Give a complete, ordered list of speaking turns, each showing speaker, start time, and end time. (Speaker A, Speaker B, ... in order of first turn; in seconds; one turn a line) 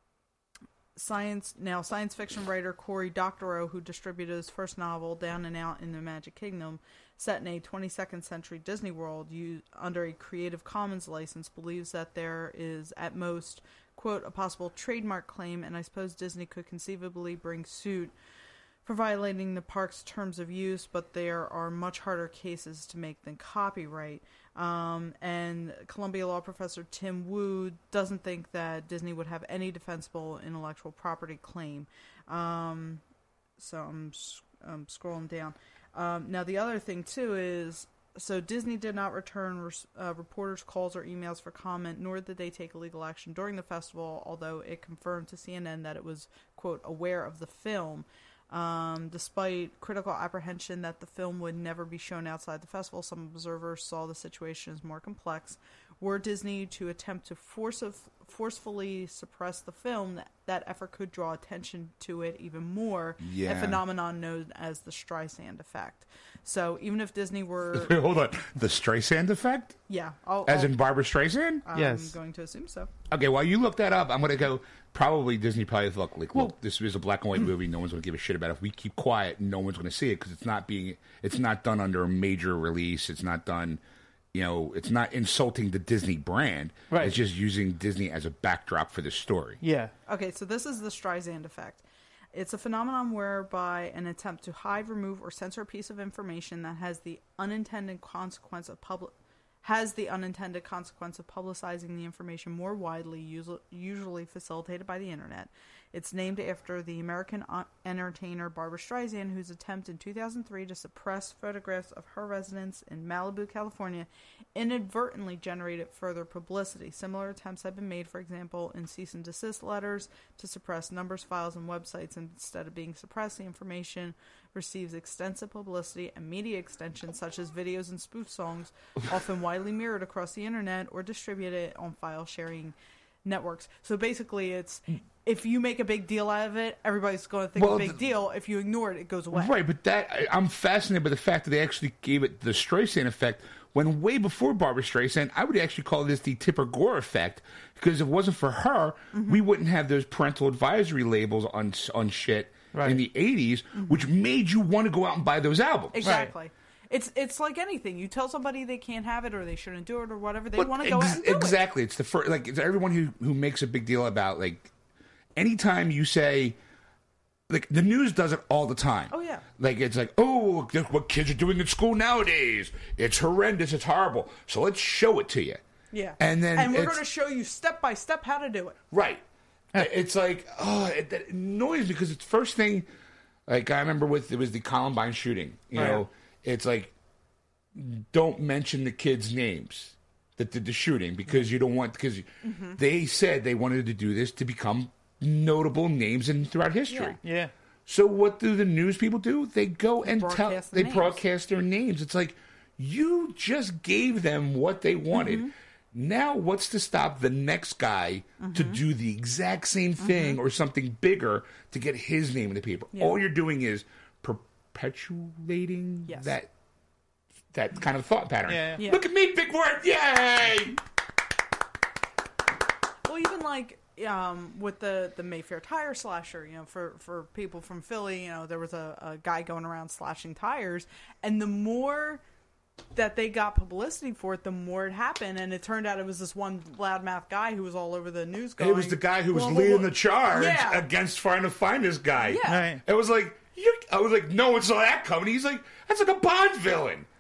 Speaker A: 1.0-18.1
Speaker A: 18.8-33.0
Speaker A: 33.6-68.0
Speaker B: 63.2-63.8
Speaker B: 67.7-69.8
Speaker A: 69.9-70.8
Speaker B: 70.5-71.6
Speaker A: 71.7-72.9
Speaker C: 71.8-72.2
Speaker B: 73.1-83.8
Speaker B: 84.3-89.6
Speaker C: 86.9-87.2
Speaker C: 89.6-89.9
Speaker A: 90.1-139.5
Speaker B: 137.6-138.0
Speaker B: 139.3-156.2
Speaker A: 149.1-149.4
Speaker C: 152.7-153.0
Speaker A: 153.8-154.0
Speaker A: 155.9-161.6
Speaker C: 156.0-156.3
Speaker B: 160.6-164.7
Speaker B: 165.4-166.6
Speaker B: 167.5-175.6
Speaker A: 169.1-169.4
Speaker A: 175.9-178.8
Speaker B: 176.2-177.0
Speaker B: 178.9-182.9
Speaker B: 183.5-186.9
Speaker C: 185.7-186.0
Speaker B: 187.7-197.2
Speaker A: 192.4-192.8
Speaker A: 196.9-197.2
Speaker C: 197.2-197.5
Speaker B: 197.9-216.5
Speaker A: 200.1-201.2
Speaker A: 205.1-205.5
Speaker A: 208.4-208.8
Speaker A: 210.0-210.4
Speaker A: 212.9-213.2
Speaker A: 216.1-216.3
Speaker B: 217.5-220.8
Speaker C: 218.5-218.8
Speaker A: 223.1-232.2
Speaker A: 232.9-240.8
Speaker B: 238.6-247.1
Speaker A: 242.2-242.6
Speaker C: 242.4-242.8